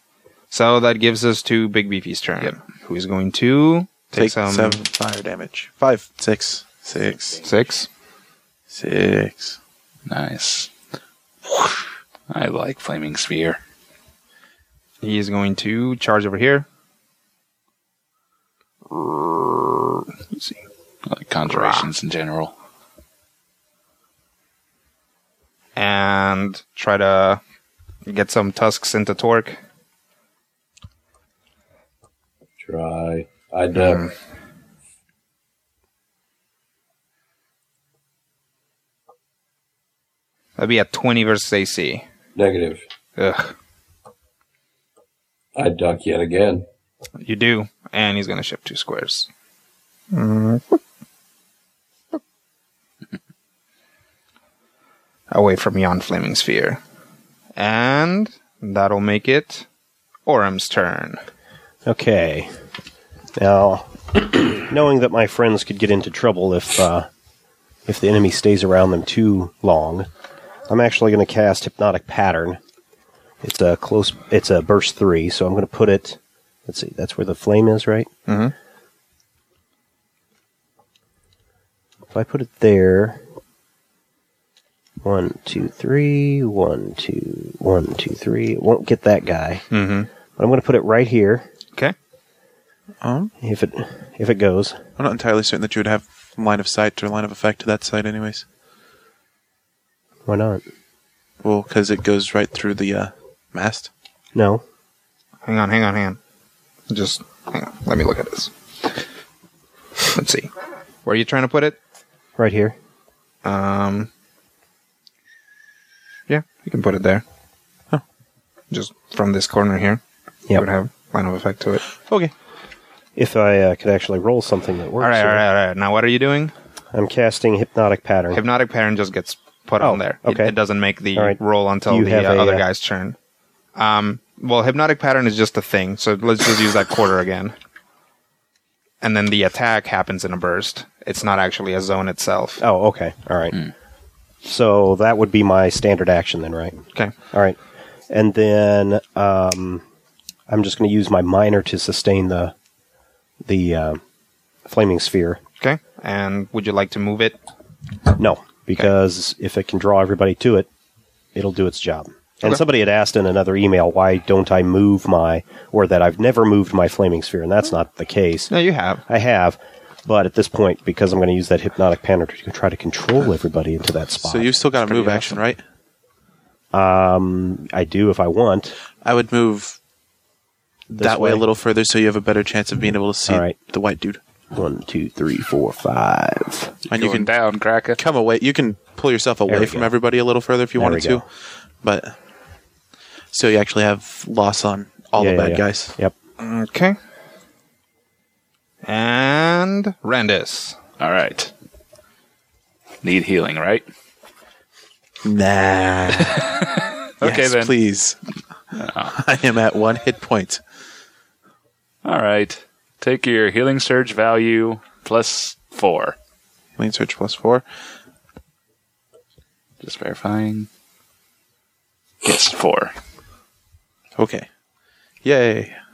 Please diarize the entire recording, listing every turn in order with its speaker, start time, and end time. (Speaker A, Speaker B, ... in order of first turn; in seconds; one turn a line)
Speaker A: 0.5-4.8
Speaker B: 4.1-7.5
Speaker A: 7.4-7.9
Speaker B: 8.7-9.6
Speaker C: 10.1-10.7
Speaker C: 12.3-13.6
Speaker A: 15.0-16.6
Speaker A: 18.9-20.6
Speaker C: 21.1-22.5
Speaker A: 21.4-21.9
Speaker A: 25.8-27.4
Speaker A: 28.1-29.6
Speaker D: 32.6-34.1
Speaker A: 40.6-42.0
Speaker D: 42.4-42.8
Speaker A: 43.2-43.5
Speaker D: 45.5-46.6
Speaker A: 47.2-49.3
Speaker A: 50.1-50.8
Speaker A: 55.3-56.8
Speaker A: 57.5-59.7
Speaker A: 60.2-61.2
Speaker E: 61.9-62.5
Speaker E: 63.4-67.1
Speaker E: 67.9-70.1
Speaker E: 70.7-72.6
Speaker E: 73.4-78.1
Speaker A: 78.3-78.5
Speaker E: 82.1-83.2
Speaker E: 85.0-89.7
Speaker A: 89.7-90.1
Speaker E: 90.4-91.5
Speaker B: 93.0-93.3
Speaker E: 93.4-94.8
Speaker B: 95.0-98.4
Speaker E: 100.3-100.6
Speaker B: 101.4-103.9
Speaker E: 104.3-104.6
Speaker A: 105.4-106.2
Speaker A: 106.9-108.5
Speaker A: 110.1-110.5
Speaker A: 111.0-111.8
Speaker E: 112.4-112.8
Speaker A: 113.4-114.1
Speaker A: 116.3-117.2
Speaker A: 118.7-120.0
Speaker A: 120.5-121.9
Speaker B: 122.0-122.3
Speaker E: 123.2-125.4
Speaker A: 125.0-126.5
Speaker E: 126.9-128.4
Speaker A: 128.3-133.2
Speaker E: 129.8-130.6
Speaker E: 131.1-132.6
Speaker A: 133.8-137.5
Speaker A: 139.0-142.6
Speaker E: 142.6-143.6
Speaker E: 144.4-147.6
Speaker E: 148.1-149.8
Speaker E: 150.5-152.5
Speaker E: 153.4-154.0
Speaker E: 154.7-155.4
Speaker A: 155.6-157.4
Speaker E: 158.2-160.7
Speaker E: 161.3-168.5
Speaker A: 168.5-169.0
Speaker E: 169.1-175.4
Speaker B: 174.2-175.6
Speaker E: 176.7-178.8
Speaker B: 179.0-179.8
Speaker E: 180.9-181.4
Speaker B: 181.0-184.2
Speaker E: 183.3-183.6
Speaker E: 184.5-186.7
Speaker C: 186.9-188.0
Speaker B: 186.9-187.3
Speaker B: 187.9-191.3
Speaker E: 189.5-189.9
Speaker E: 190.8-191.2
Speaker B: 191.8-192.2
Speaker B: 193.3-195.9
Speaker E: 195.2-196.1
Speaker A: 196.4-197.0
Speaker A: 198.8-200.8
Speaker C: 201.0-201.5
Speaker C: 203.0-203.8
Speaker B: 205.2-206.4
Speaker C: 206.2-207.7
Speaker B: 207.2-208.2
Speaker C: 208.7-209.2
Speaker B: 209.1-210.6
Speaker C: 212.0-216.2
Speaker B: 216.8-217.6
Speaker C: 219.8-220.7
Speaker C: 222.2-222.9
Speaker B: 224.2-224.5
Speaker B: 225.2-225.8